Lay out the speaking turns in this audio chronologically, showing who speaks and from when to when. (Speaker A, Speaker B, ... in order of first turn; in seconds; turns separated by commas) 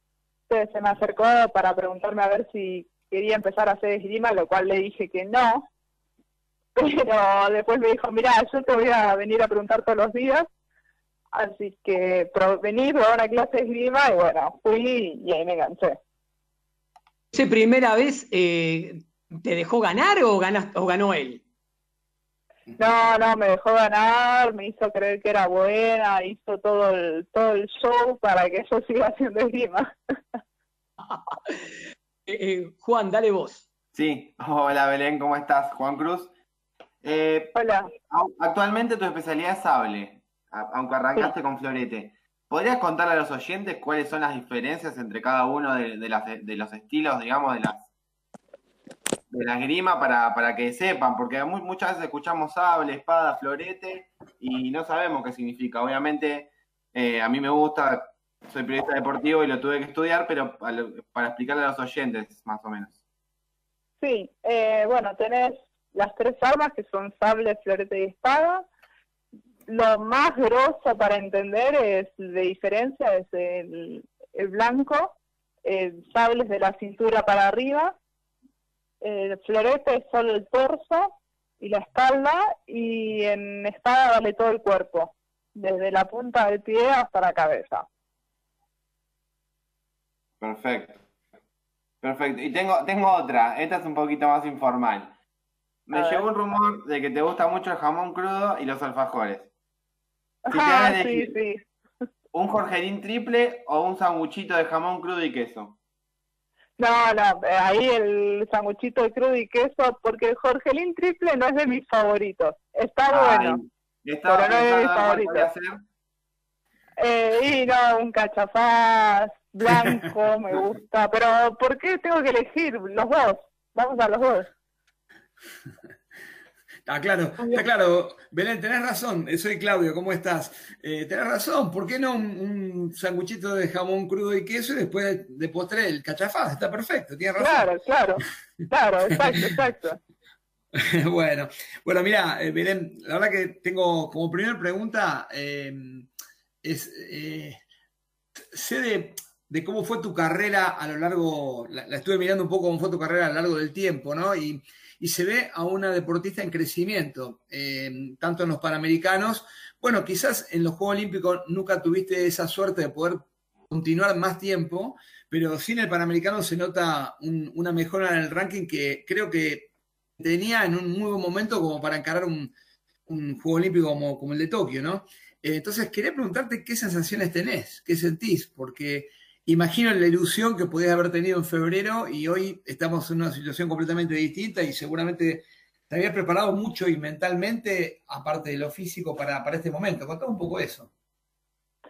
Speaker A: 0.5-5.7, Speaker A: 6.8-10.5, Speaker A: 11.3-16.0, Speaker B: 17.3-21.4, Speaker A: 22.8-29.9, Speaker B: 31.1-31.7, Speaker B: 32.3-33.6, Speaker C: 33.9-36.3, Speaker C: 37.0-37.5, Speaker A: 37.5-37.9, Speaker C: 38.1-47.9, Speaker C: 49.3-63.0, Speaker A: 64.0-68.7, Speaker A: 69.7-77.9, Speaker A: 79.0-87.8, Speaker C: 90.4-91.0, Speaker C: 92.0-95.1, Speaker C: 95.9-99.5, Speaker A: 95.9-96.2, Speaker A: 100.5-101.6, Speaker C: 100.5-101.3, Speaker C: 102.3-105.8, Speaker A: 106.8-113.6, Speaker C: 113.1-115.8, Speaker A: 114.2-115.5, Speaker A: 117.0-124.5, Speaker D: 126.9-137.7, Speaker A: 137.4-140.0, Speaker D: 140.8-146.1, Speaker D: 146.6-147.6, Speaker D: 148.5-172.5, Speaker D: 173.1-190.9